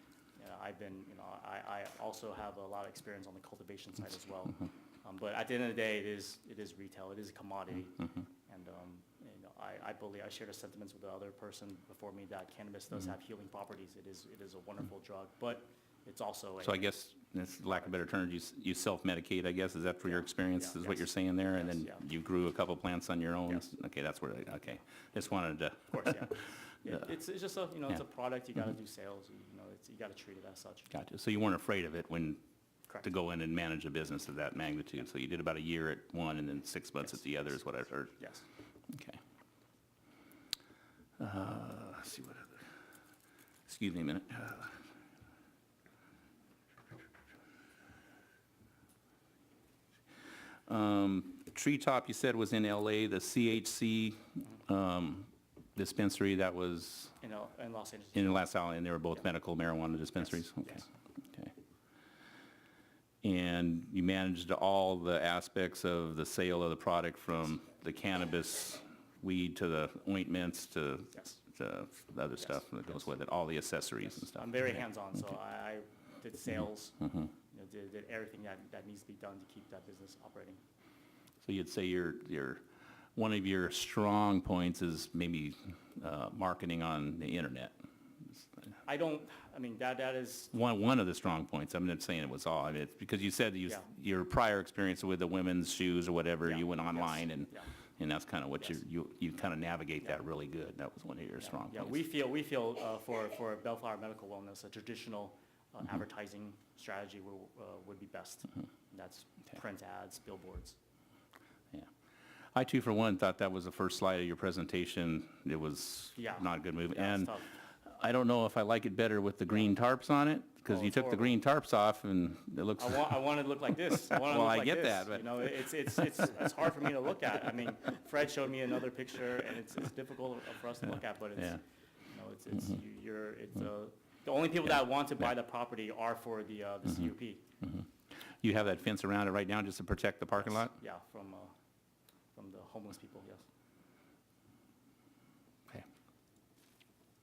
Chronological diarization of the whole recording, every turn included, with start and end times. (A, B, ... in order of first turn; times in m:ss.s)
0:00.4-0:16.9 A
0:16.6-0:26.3 B
0:20.0-0:22.0 A
0:25.9-0:30.9 A
0:30.9-0:32.4 B
0:33.0-0:38.2 B
0:37.0-0:37.6 A
0:38.2-0:38.4 A
0:38.9-0:39.2 B
0:41.2-0:42.6 B
0:43.7-0:44.8 B
0:50.7-0:57.1 B
0:57.2-0:58.5 A
0:58.1-1:01.5 B
1:00.2-1:00.9 A
1:03.2-1:14.8 B
1:14.2-1:17.0 A
1:17.0-1:17.3 B
1:17.5-1:20.6 A
1:21.4-1:22.6 B
1:23.2-1:27.7 B
1:28.8-1:30.5 A
1:30.5-1:42.0 B
1:36.4-1:37.7 A
1:41.4-1:50.8 A
1:52.5-1:57.3 B
1:56.2-1:57.5 A
1:57.8-2:03.2 B
2:00.7-2:01.4 A
2:02.8-2:17.4 A
2:04.1-2:05.4 B
2:18.4-2:20.7 B
2:20.4-2:21.5 A
2:22.3-2:23.4 A